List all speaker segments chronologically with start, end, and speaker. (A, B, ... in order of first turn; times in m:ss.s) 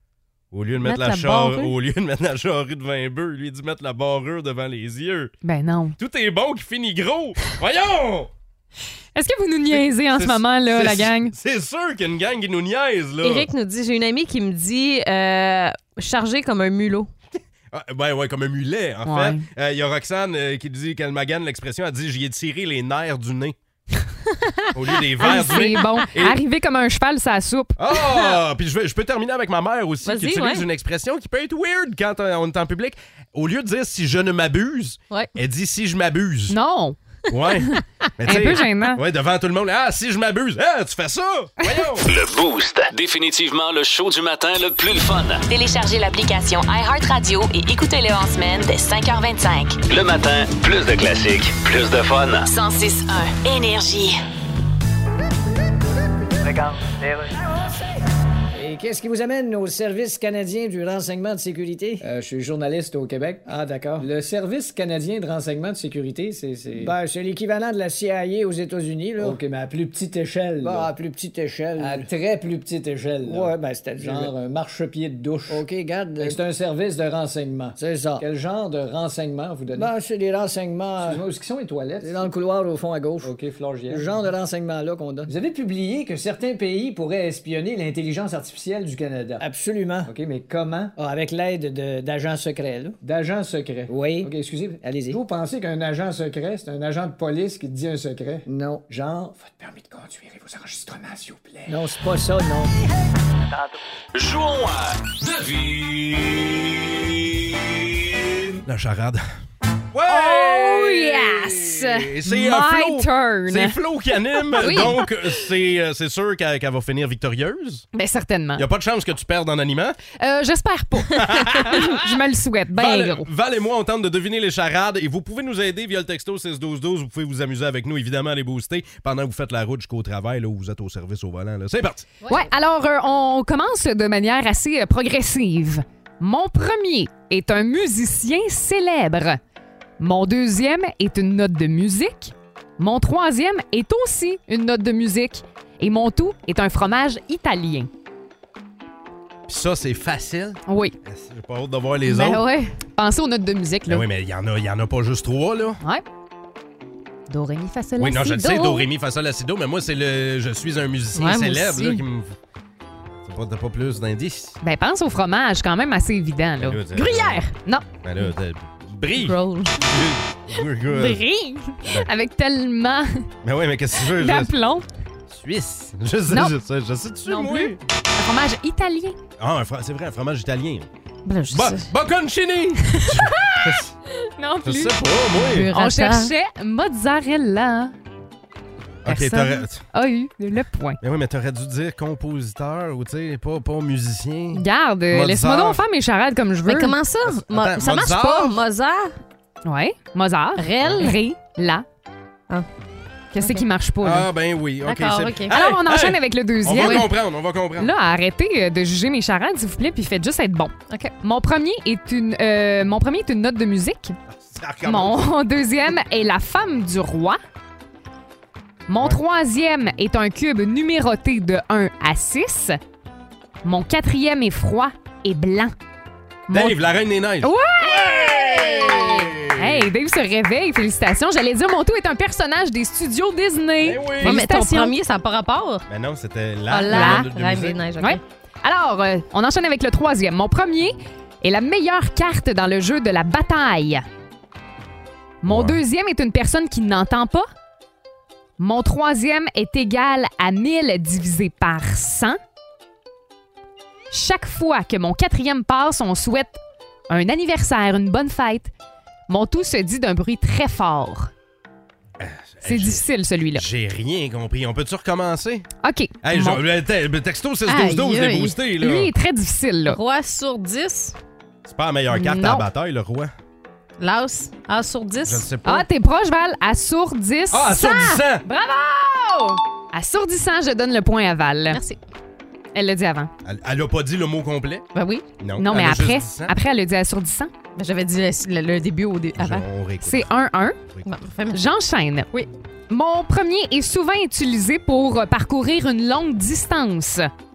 0:00.5-0:05.3 A
0:00.8-0:01.8 B
0:05.4-0:06.0 C
0:06.0-0:08.3 A
0:09.2-0:11.4 C
0:09.7-0:13.5 A
0:13.2-0:17.1 B
0:17.7-0:23.6 A
0:19.0-0:19.4 C
0:24.7-0:26.4 A
0:25.2-0:27.8 C
0:27.8-0:36.6 A
0:30.0-0:30.7 B
0:36.5-0:37.0 C
0:37.3-0:42.1 A
0:38.3-0:39.0 C
0:42.0-0:45.4 D
0:45.5-0:49.8 E
0:49.9-0:52.5 D
0:52.5-0:54.2 E
0:56.5-0:57.3 F
0:58.6-0:59.9 G
1:00.3-1:02.0 F
1:02.0-1:07.9 G
1:06.7-1:07.1 F
1:08.4-1:09.4 F
1:09.2-1:10.9 G
1:10.6-1:12.1 F
1:11.8-1:15.6 G
1:13.2-1:14.3 F
1:15.5-1:16.4 F
1:16.2-1:19.9 G
1:17.8-1:18.2 F
1:19.8-1:21.2 F
1:21.0-1:22.3 G
1:22.0-1:23.3 F
1:23.2-1:24.3 G
1:23.9-1:25.3 F
1:25.3-1:29.5 G
1:29.4-1:30.1 F
1:30.1-1:31.0 G
1:31.0-1:33.0 F
1:33.0-1:42.7 G
1:33.9-1:35.2 F
1:38.5-1:38.9 F
1:41.7-1:42.7 F
1:44.1-1:47.2 D
1:48.6-1:49.2 A
1:49.9-1:57.9 A
1:50.1-1:53.8 C
1:54.5-1:55.0 C
1:57.9-1:58.7 C
1:58.6-2:00.0 A
2:00.2-2:03.3 C
2:01.1-2:02.2 A
2:02.7-2:12.1 A
2:12.3-2:19.4 C
2:20.0-2:27.9 C
2:29.5-2:32.4 A
2:30.7-2:31.0 C
2:32.1-2:32.7 B
2:33.0-2:34.1 C
2:33.9-2:35.8 A
2:37.3-2:38.9 C
2:38.0-2:42.4 A
2:41.2-2:42.0 B
2:43.2-2:44.6 A
2:44.6-2:46.8 C
2:46.6-2:47.4 A
2:47.0-2:47.5 B
2:48.0-2:51.2 A
2:49.2-2:49.8 B
2:50.9-2:53.2 C
2:51.8-2:52.1 A
2:53.4-2:54.5 A
2:54.2-2:54.9 C
2:55.3-2:57.8 A
2:56.3-2:56.6 C
2:57.3-2:59.2 C
2:59.4-3:00.9 A
3:01.3-3:01.9 B
3:01.5-3:03.9 A
3:03.0-3:05.0 C
3:04.6-3:05.7 A
3:05.4-3:06.3 B
3:05.7-3:07.9 C
3:09.0-3:09.8 A
3:09.1-3:11.0 C
3:11.0-3:15.8 A
3:14.5-3:17.0 C
3:16.7-3:19.2 B
3:17.2-3:18.6 A
3:19.7-3:21.8 C
3:20.6-3:21.2 B
3:20.8-3:21.1 A
3:23.3-3:24.3 C
3:23.4-3:23.6 B
3:24.0-3:27.9 A
3:24.8-3:25.5 B
3:25.5-3:27.1 C
3:27.8-3:34.2 C
3:34.3-3:35.3 A
3:34.8-3:37.4 C
3:38.9-3:42.8 C
3:43.6-3:45.8 C
3:46.5-3:46.8 C
3:46.5-3:49.9 A
3:47.4-3:54.9 C
3:53.8-3:54.4 A
3:54.2-3:55.8 B
3:55.9-3:57.8 A
3:56.7-3:58.2 B
3:56.9-3:57.3 C
3:58.0-4:04.0 C
4:05.4-4:07.5 C
4:05.5-4:05.8 A
4:08.6-4:12.4 C
4:14.1-4:16.6 C
4:17.1-4:18.7 C
4:19.3-4:21.3 C
4:22.2-4:25.7 A
4:22.6-4:23.7 C
4:25.8-4:26.6 C
4:26.2-4:29.1 A
4:27.7-4:28.6 B
4:28.8-4:30.0 C
4:29.9-4:31.2 B
4:31.6-4:33.3 A
4:32.1-4:32.7 C
4:34.0-4:35.5 B
4:35.2-4:35.9 A
4:35.6-4:41.8 C
4:37.5-4:38.4 A
4:41.7-4:42.0 B
4:42.8-4:43.3 C
4:43.4-4:44.8 A
4:45.0-4:45.2 B
4:45.4-4:46.6 A
4:45.6-4:47.5 C
4:47.8-4:49.6 B
4:49.4-4:50.3 A
4:50.0-4:50.8 C
4:50.9-4:51.1 A
4:51.0-4:51.6 B
4:51.5-4:52.3 C
4:52.9-4:57.3 C